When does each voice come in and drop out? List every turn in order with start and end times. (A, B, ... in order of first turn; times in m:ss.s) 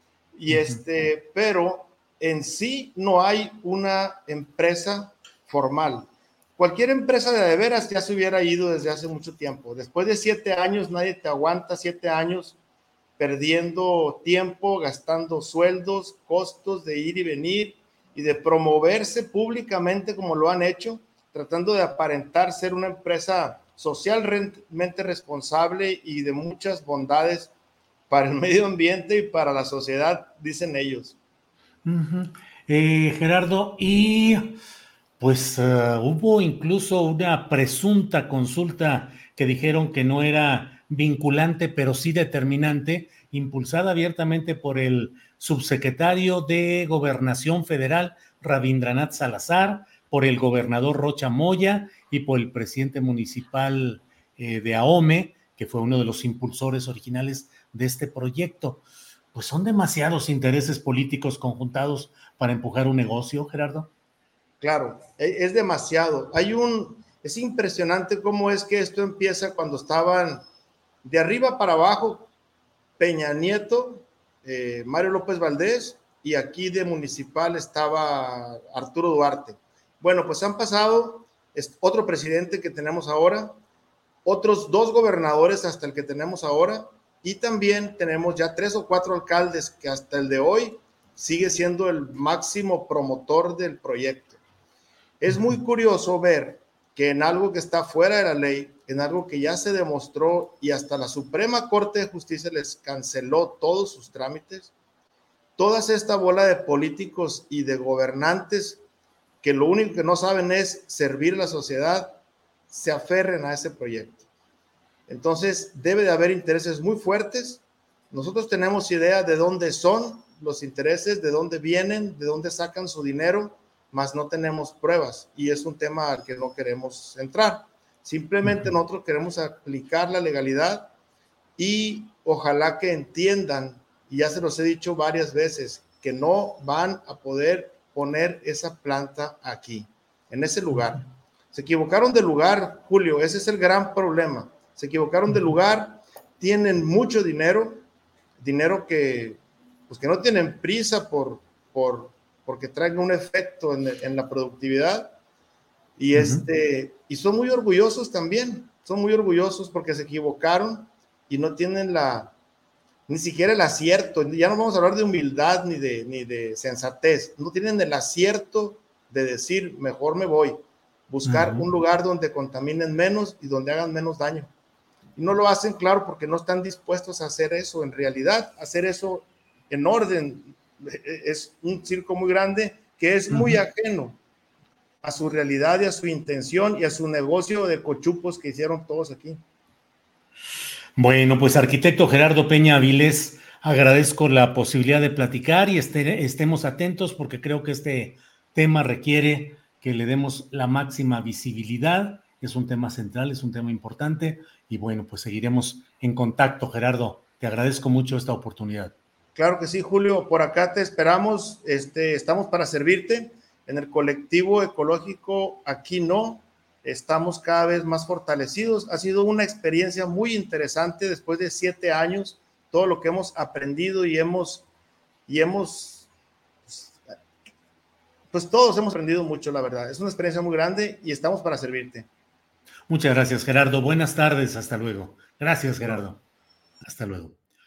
0:00.3-0:12.6 A
0:00.5-0:00.8 B
0:13.2-0:27.5 A
0:28.1-0:31.2 A
0:31.8-0:34.6 B
0:35.2-1:03.9 B
1:04.6-1:10.4 A
1:11.0-1:12.3 A
1:13.0-1:23.6 A
1:24.2-1:34.4 A
1:35.2-1:44.7 A
1:35.3-1:35.6 B
1:45.6-1:48.8 A
1:49.4-1:52.2 A
1:52.7-1:54.2 A
1:55.1-2:10.9 A
2:11.6-2:27.8 A
2:28.4-2:35.2 A
2:36.0-2:42.3 A
2:36.1-2:36.4 B
2:43.1-2:54.5 A
2:51.2-2:51.6 B
2:55.2-3:04.2 A
3:03.3-3:03.6 B
3:05.0-3:09.4 A
3:11.0-3:28.9 B
3:29.4-3:44.7 A
3:45.3-3:46.1 A
3:46.7-3:47.1 A
3:48.3-3:52.1 A
3:52.9-3:56.2 B
3:56.8-3:57.4 B